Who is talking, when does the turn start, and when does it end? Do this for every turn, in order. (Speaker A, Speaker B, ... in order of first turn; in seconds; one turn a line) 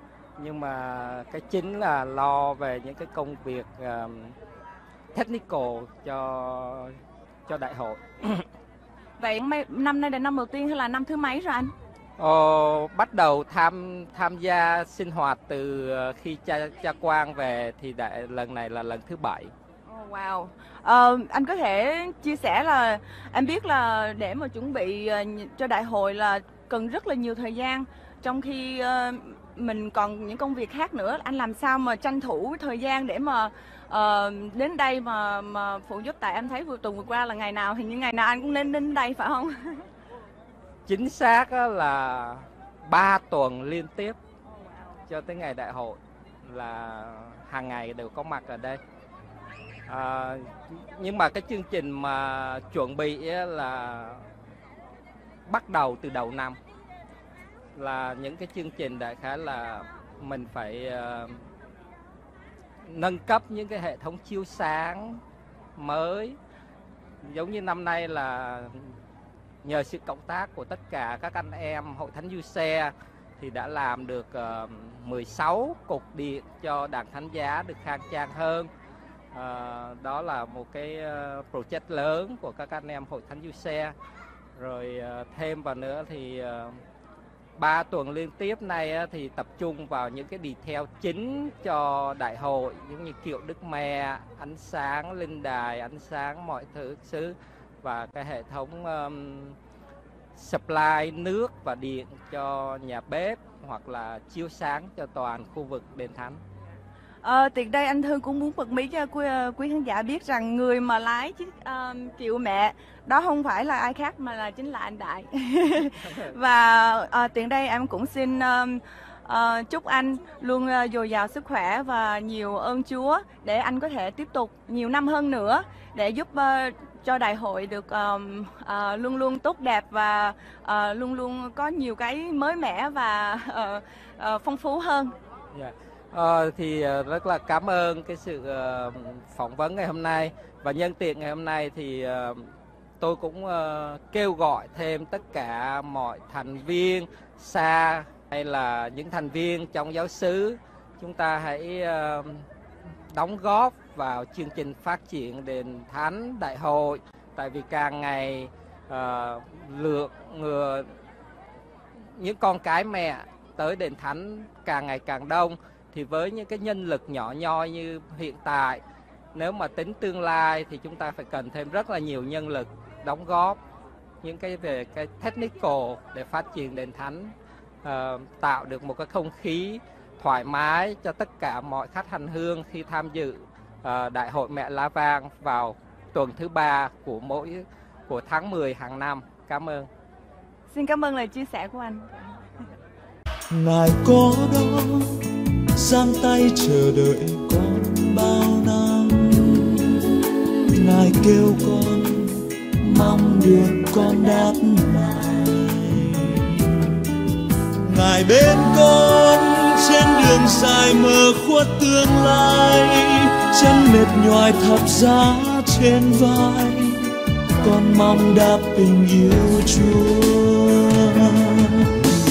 Speaker A: 0.4-4.4
Speaker A: 5.1-8.4
Speaker B: 9.2-11.7
Speaker A: 12.2-19.5
Speaker B: 19.9-39.9
Speaker A: 40.9-44.2
Speaker A: 45.1-48.8
Speaker A: 49.9-54.3
Speaker A: 55.5-56.6
Speaker A: 57.7-61.5
Speaker A: 62.8-65.2
Speaker A: 65.8-66.4
Speaker A: 67.2-69.0
Speaker A: 69.6-78.7
Speaker A: 79.3-83.9
Speaker A: 84.5-86.8
Speaker A: 87.6-99.6
Speaker A: 100.3-106.4
Speaker B: 107.2-135.2
Speaker A: 116.1-116.3
Speaker A: 135.5-152.5
Speaker A: 153.1-161.0
Speaker A: 162.0-168.8
Speaker A: 169.3-173.6
Speaker A: 174.2-189.9
Speaker B: 190.7-192.6
Speaker C: 193.5-200.2
Speaker C: 200.7-207.0
Speaker C: 207.8-221.9